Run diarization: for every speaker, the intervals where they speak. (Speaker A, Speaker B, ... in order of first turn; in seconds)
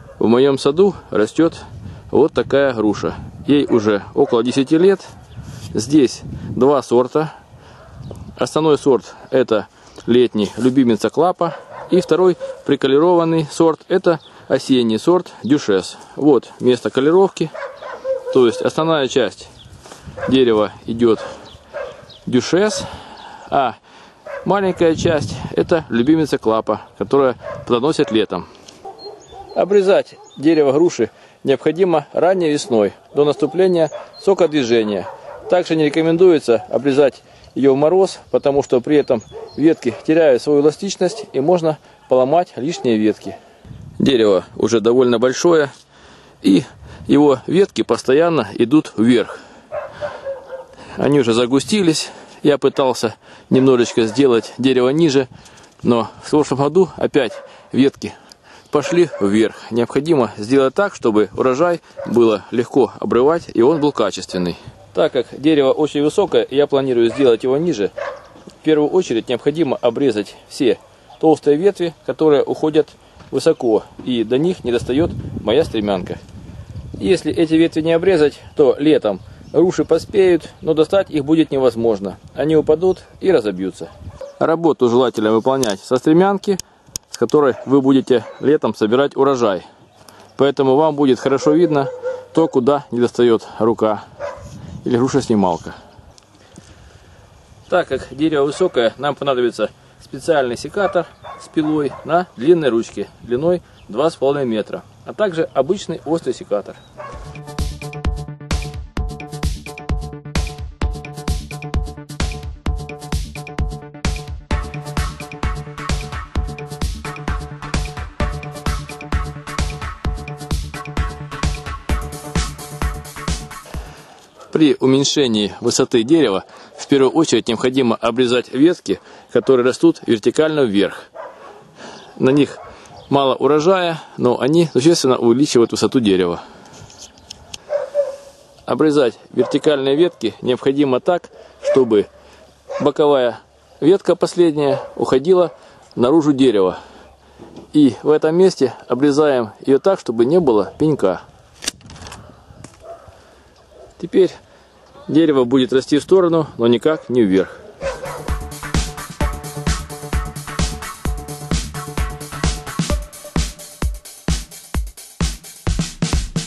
Speaker A: 0.2-5.1, 5.7-7.3, 8.3-17.5, 18.3-19.5, 20.2-21.2, 22.2-23.8, 24.4-28.5, 29.5-43.4, 44.0-45.7, 46.4-49.4, 50.9-55.3, 55.8-58.1, 58.7-67.9, 68.6-76.2, 77.0-89.6, 90.3-94.0, 94.8-95.8, 97.7-106.8, 124.5-131.0, 132.2-136.4, 138.7-142.1, 142.8-146.8, 147.7-151.2, 154.0-154.4, 155.1-157.5